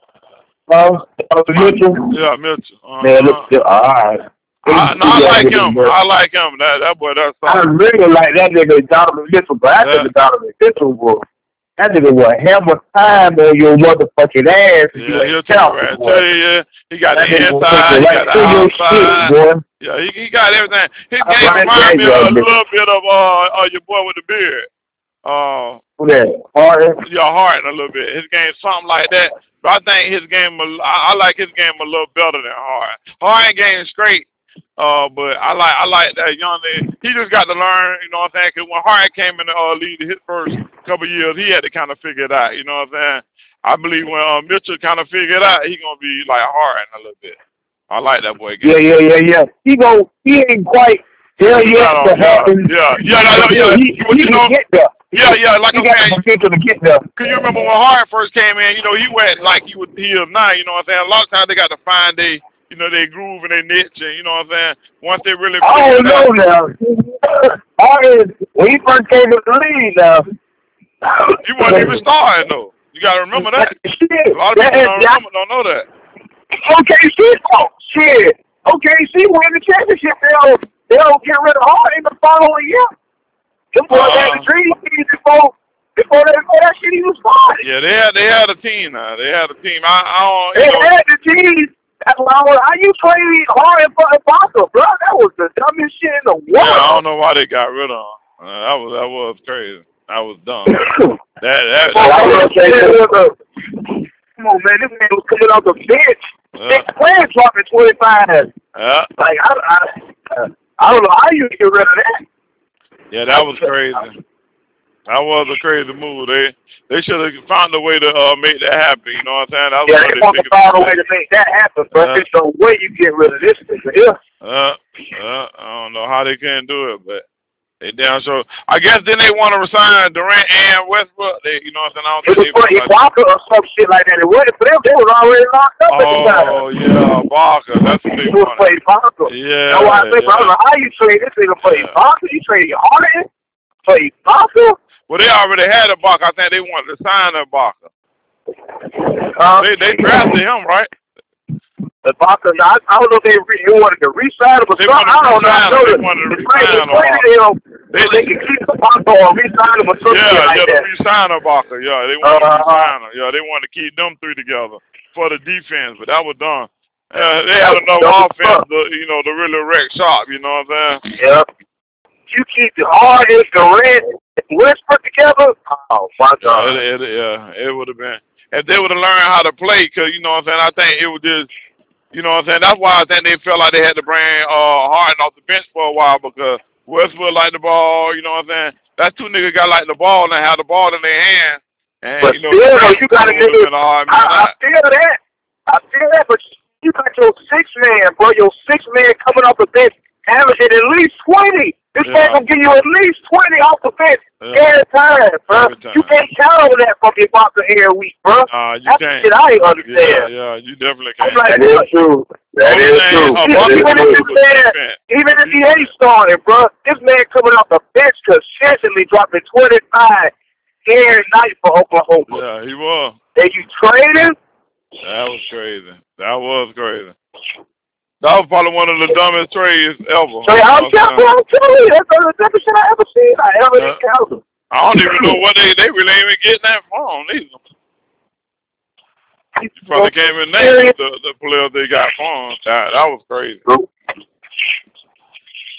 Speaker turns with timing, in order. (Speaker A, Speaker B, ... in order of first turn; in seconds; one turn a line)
Speaker A: 0.7-2.1
Speaker B: 1.5-3.5
Speaker A: 3.0-5.9
Speaker B: 4.7-7.7
Speaker A: 7.4-11.2
Speaker B: 9.8-10.1
Speaker A: 11.8-16.2
Speaker B: 14.9-24.7
Speaker A: 17.1-19.6
Speaker A: 21.2-22.5
Speaker B: 25.2-25.8
Speaker A: 26.0-27.0
Speaker B: 27.0-47.4
Speaker B: 47.9-48.8
Speaker A: 48.6-54.9
Speaker B: 51.4-54.6
Speaker B: 55.1-56.2
Speaker A: 55.7-57.1
Speaker B: 57.1-66.3
Speaker A: 65.6-70.2
Speaker A: 71.1-72.0
Speaker B: 71.4-73.7
Speaker A: 73.3-75.2
Speaker B: 74.3-75.9
Speaker A: 76.6-82.9
Speaker A: 83.7-87.6
Speaker B: 83.9-84.5
Speaker B: 87.6-90.9
Speaker A: 90.5-97.0
Speaker B: 96.5-102.5
Speaker A: 100.7-101.2
Speaker A: 101.9-103.3
Speaker C: 101.9-103.0
Speaker A: 104.4-108.5
Speaker B: 106.5-106.9
Speaker B: 108.7-109.1
Speaker A: 109.2-112.2
Speaker B: 113.1-114.2
Speaker A: 113.3-113.7
Speaker B: 115.1-120.9
Speaker A: 119.8-124.2
Speaker B: 121.9-122.2
Speaker B: 124.4-127.2
Speaker B: 127.8-132.9
Speaker A: 132.2-136.6
Speaker B: 135.9-138.7
Speaker A: 138.1-143.3
Speaker B: 139.2-140.5
Speaker B: 141.6-141.9
Speaker A: 143.8-144.8
Speaker B: 145.1-147.9
Speaker A: 149.2-150.2
Speaker B: 149.5-150.9
Speaker A: 152.0-160.9
Speaker B: 154.8-157.2
Speaker B: 157.9-158.3
Speaker B: 160.1-171.0
Speaker A: 162.2-162.9
Speaker A: 167.2-168.6
Speaker A: 171.2-171.5
Speaker A: 172.3-176.8
Speaker B: 176.4-181.5
Speaker B: 182.1-194.5
Speaker A: 192.2-210.3
Speaker B: 202.0-202.5
Speaker B: 204.4-204.7
Speaker B: 205.5-206.2
Speaker B: 208.5-211.5
Speaker A: 211.2-211.9
Speaker C: 211.5-214.3
Speaker B: 212.6-215.9
Speaker A: 213.3-220.3
Speaker A: 220.8-222.4
Speaker B: 222.3-223.2
Speaker A: 223.3-224.4
Speaker B: 225.0-227.1
Speaker B: 228.2-231.2
Speaker A: 230.4-234.4
Speaker B: 234.7-237.6
Speaker A: 235.0-235.3
Speaker A: 239.6-240.9
Speaker B: 239.7-243.6